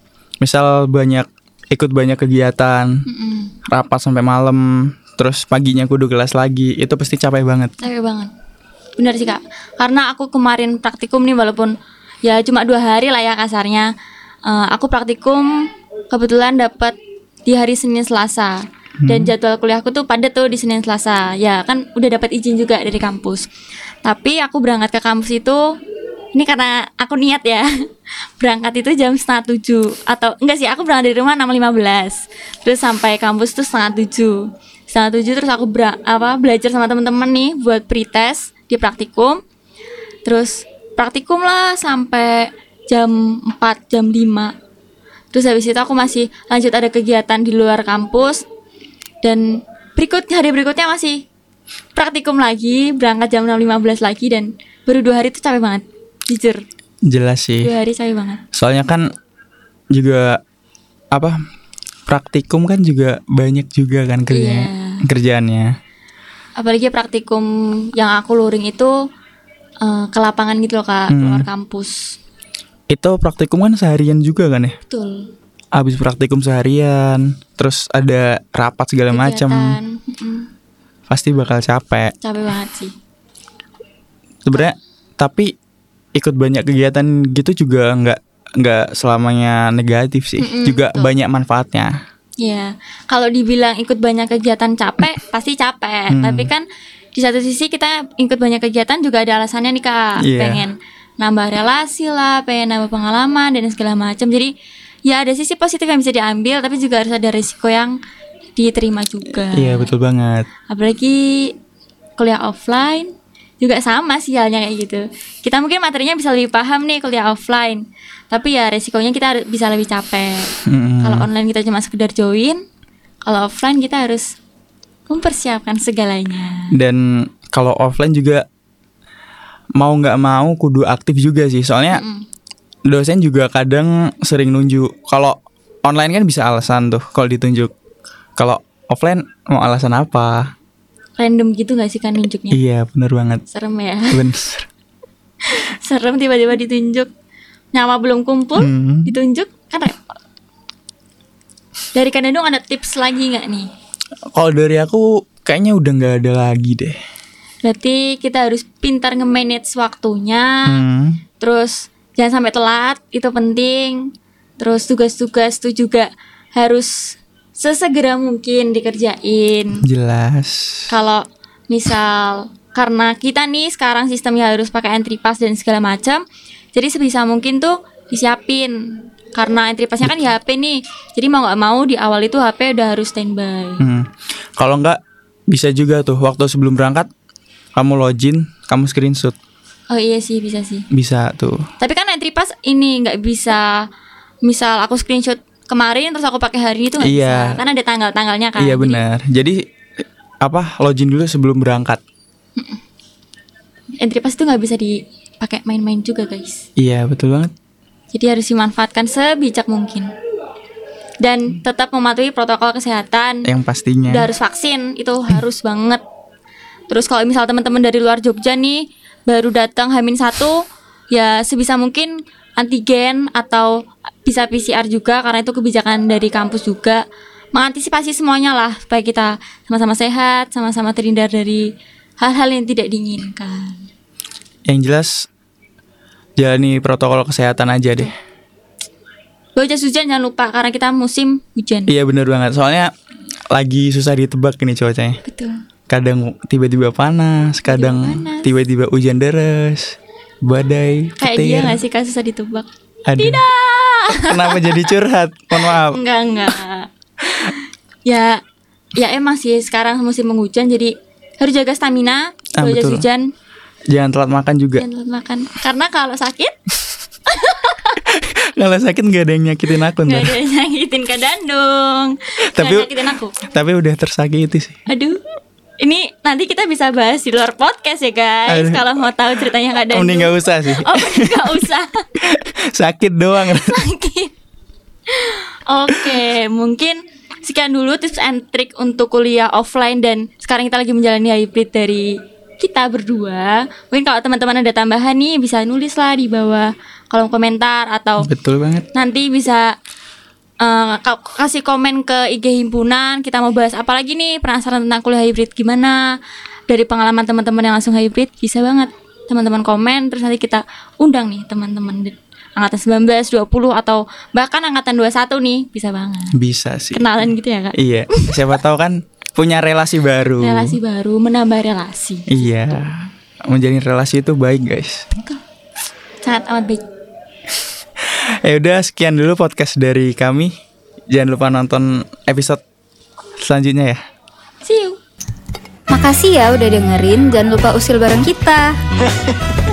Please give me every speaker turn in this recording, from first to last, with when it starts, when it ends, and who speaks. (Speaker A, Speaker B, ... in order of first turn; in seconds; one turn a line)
Speaker A: 0.4-3.0
Speaker B: 3.0-3.5
Speaker A: 3.7-7.8
Speaker B: 7.8-8.3
Speaker B: 9.0-13.9
Speaker B: 14.4-15.5
Speaker B: 16.1-23.5
Speaker A: 19.0-19.3
Speaker B: 24.0-25.6
Speaker B: 26.3-27.7
Speaker B: 28.4-39.4
Speaker B: 40.2-44.5
Speaker B: 45.3-48.4
Speaker B: 49.2-51.2
Speaker B: 51.9-56.6
Speaker A: 57.0-57.7
Speaker B: 57.6-58.4
Speaker A: 58.5-59.1
Speaker A: 59.9-60.4
Speaker A: 61.1-61.4
Speaker A: 62.1-65.7
Speaker B: 64.3-65.0
Speaker B: 66.5-68.9
Speaker B: 69.8-72.2
Speaker A: 71.1-71.5
Speaker A: 72.9-74.8
Speaker B: 74.9-75.3
Speaker A: 75.7-79.8
Speaker B: 79.1-80.5
Speaker A: 81.1-82.1
Speaker B: 82.2-82.9
Speaker A: 84.5-85.5
Speaker A: 86.1-92.0
Speaker B: 90.4-91.1
Speaker B: 92.4-104.5
Speaker A: 96.1-96.5
Speaker A: 100.2-100.6
Speaker B: 105.0-108.0
Speaker B: 108.5-109.9
Speaker A: 109.5-110.5
Speaker B: 110.7-111.5
Speaker B: 112.2-120.5
Speaker A: 120.7-121.3
Speaker B: 121.0-122.6
Speaker B: 123.2-124.3
Speaker B: 125.1-126.7
Speaker A: 126.7-128.4
Speaker A: 129.8-132.0
Speaker B: 131.9-132.2
Speaker A: 132.9-137.7
Speaker A: 138.4-140.5
Speaker B: 141.2-142.6
Speaker A: 142.5-143.4
Speaker B: 143.5-144.2
Speaker A: 144.1-144.7
Speaker B: 145.4-147.1
Speaker B: 147.7-150.0
Speaker A: 148.6-149.2
Speaker B: 151.9-153.7
Speaker A: 154.3-157.0
Speaker B: 157.6-160.8
Speaker A: 160.7-161.2
Speaker B: 161.4-169.8
Speaker A: 169.8-170.9
Speaker B: 170.9-176.2
Speaker B: 176.7-183.8
Speaker A: 183.8-187.1
Speaker A: 187.7-189.3
Speaker B: 189.9-190.8
Speaker A: 190.9-191.7
Speaker B: 191.8-193.7
Speaker B: 194.4-199.0
Speaker A: 197.0-197.6
Speaker A: 198.6-199.6
Speaker A: 200.4-202.0
Speaker B: 204.0-206.7
Speaker A: 206.8-207.5
Speaker B: 208.1-210.1
Speaker B: 211.2-213.5
Speaker A: 213.4-214.3
Speaker B: 214.1-216.0
Speaker B: 216.9-231.7
Speaker B: 232.2-233.9
Speaker A: 234.7-235.2
Speaker A: 236.4-238.1
Speaker B: 239.6-241.9
Speaker A: 241.9-242.9
Speaker A: 243.5-245.2
Speaker B: 245.2-245.6
Speaker A: 245.9-251.8
Speaker B: 247.7-248.5
Speaker B: 251.2-254.9
Speaker A: 253.1-253.4
Speaker A: 254.1-256.0
Speaker B: 255.6-258.4
Speaker B: 259.0-263.3
Speaker A: 262.6-263.1
Speaker A: 263.9-264.8
Speaker B: 264.8-266.6
Speaker B: 267.2-268.0
Speaker A: 268.1-270.4
Speaker B: 270.0-273.4
Speaker A: 272.5-274.8
Speaker B: 274.9-275.2
Speaker B: 275.8-282.1
Speaker A: 278.5-279.1
Speaker A: 279.9-281.7
Speaker A: 282.2-283.8
Speaker B: 283.4-284.3
Speaker B: 285.1-298.3
Speaker A: 298.2-298.9
Speaker B: 298.9-299.7
Speaker B: 300.6-306.0
Speaker B: 306.7-316.4
Speaker A: 316.3-320.8
Speaker B: 316.9-318.6
Speaker B: 320.4-322.4
Speaker A: 322.3-325.1
Speaker B: 326.2-326.8
Speaker A: 328.1-330.5
Speaker A: 331.1-332.6
Speaker A: 333.4-334.0
Speaker B: 334.6-335.0
Speaker C: 335.9-338.8